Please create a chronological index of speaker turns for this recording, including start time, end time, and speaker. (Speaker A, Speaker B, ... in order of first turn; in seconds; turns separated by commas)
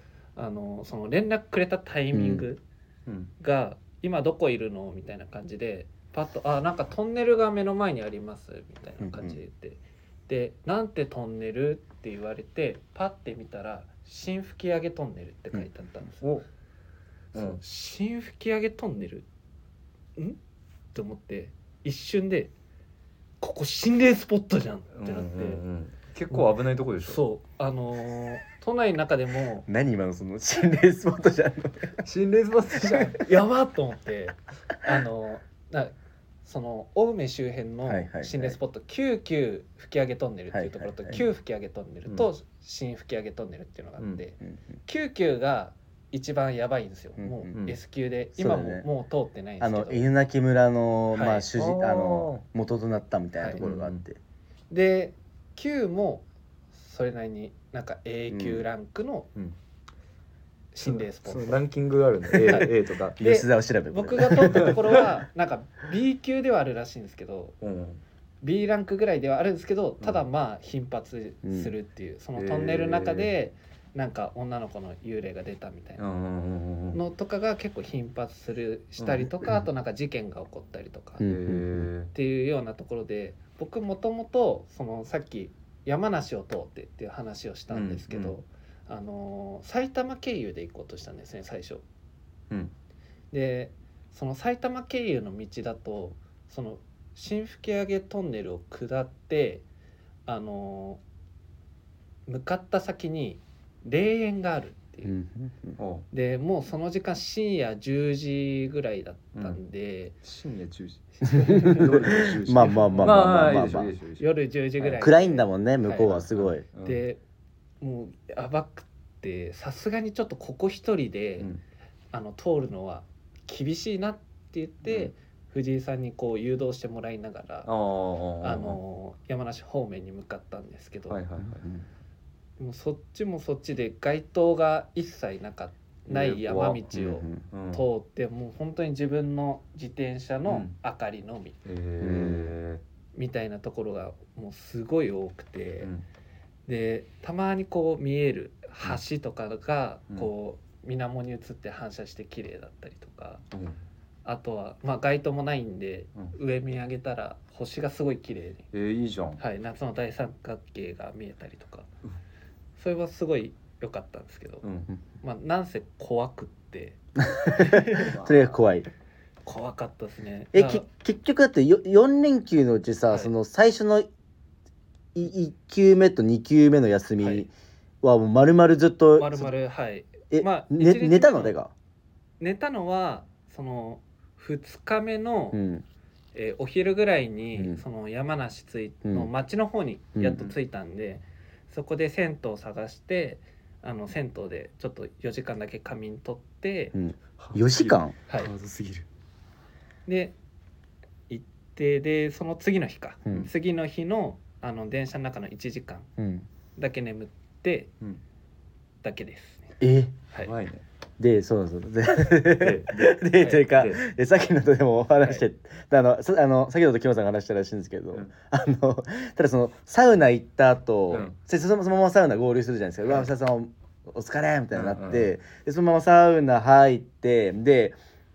Speaker A: 0.4-2.6, Speaker B: 2.1-2.5, Speaker C: 3.1-3.3, Speaker A: 3.4-16.2, Speaker B: 9.0-9.4, Speaker C: 17.3-17.6, Speaker A: 17.4-19.3, Speaker A: 20.9-22.5, Speaker A: 23.4-25.6, Speaker C: 24.9-27.2, Speaker A: 27.1-29.7, Speaker B: 29.7-32.0, Speaker C: 32.0-33.2, Speaker A: 32.8-35.9, Speaker A: 36.5-50.1, Speaker B: 37.9-38.6, Speaker B: 40.5-41.2, Speaker B: 47.2-47.5, Speaker B: 48.4-48.9, Speaker B: 49.6-54.2, Speaker A: 51.1-51.5, Speaker C: 51.6-52.4, Speaker C: 53.6-54.0, Speaker A: 54.7-59.3, Speaker B: 58.3-58.6, Speaker A: 60.7-61.6, Speaker C: 60.8-63.2, Speaker A: 62.5-67.6, Speaker B: 63.2-65.0, Speaker C: 64.4-64.8, Speaker C: 67.6-68.0, Speaker A: 68.4-76.0, Speaker B: 71.4-71.7, Speaker C: 72.4-73.3, Speaker C: 76.0-77.0, Speaker A: 76.9-81.2, Speaker B: 81.2-81.9, Speaker C: 81.2-82.1, Speaker A: 82.1-91.8, Speaker C: 87.7-88.4, Speaker A: 93.3-99.7, Speaker A: 100.3-101.0, Speaker A: 102.3-105.1, Speaker B: 105.0-105.8, Speaker C: 105.8-106.1, Speaker A: 106.1-110.2, Speaker C: 110.2-114.3, Speaker A: 111.2-112.0, Speaker B: 111.3-113.9, Speaker A: 114.2-116.2, Speaker B: 114.8-116.7, Speaker C: 116.1-117.1, Speaker A: 116.8-117.2, Speaker A: 117.8-121.5, Speaker A: 122.1-127.7, Speaker C: 124.8-125.1, Speaker C: 127.7-128.8, Speaker A: 128.4-131.2, Speaker C: 131.1-131.7, Speaker B: 131.4-131.8, Speaker A: 132.6-141.6, Speaker C: 136.1-137.9, Speaker B: 136.9-137.4, Speaker C: 140.5-140.7, Speaker C: 141.7-142.8, Speaker B: 142.0-142.6, Speaker A: 143.2-145.9, Speaker A: 146.7-153.4, Speaker C: 153.5-153.8, Speaker A: 154.2-158.7, Speaker C: 158.7-159.4, Speaker A: 159.4-161.9, Speaker A: 162.8-164.7, Speaker C: 164.6-164.9, Speaker A: 165.2-168.3, Speaker B: 167.2-168.9, Speaker A: 169.5-170.8, Speaker B: 170.5-174.1, Speaker B: 175.2-177.5, Speaker A: 177.2-177.5, Speaker B: 178.0-179.5, Speaker A: 179.2-181.5, Speaker B: 180.3-181.7, Speaker A: 182.4-185.6, Speaker B: 185.5-185.8, Speaker A: 186.3-196.9, Speaker B: 187.6-187.8, Speaker B: 189.0-189.3, Speaker B: 190.2-190.5, Speaker B: 196.9-198.2, Speaker C: 197.4-199.1, Speaker A: 200.1-200.3, Speaker A: 201.3-206.1, Speaker B: 206.2-206.4, Speaker A: 206.8-207.9, Speaker A: 209.0-209.8, Speaker B: 209.8-210.2, Speaker C: 210.4-210.8, Speaker B: 211.2-228.0, Speaker C: 212.5-214.0, Speaker A: 213.4-213.7, Speaker C: 224.7-225.3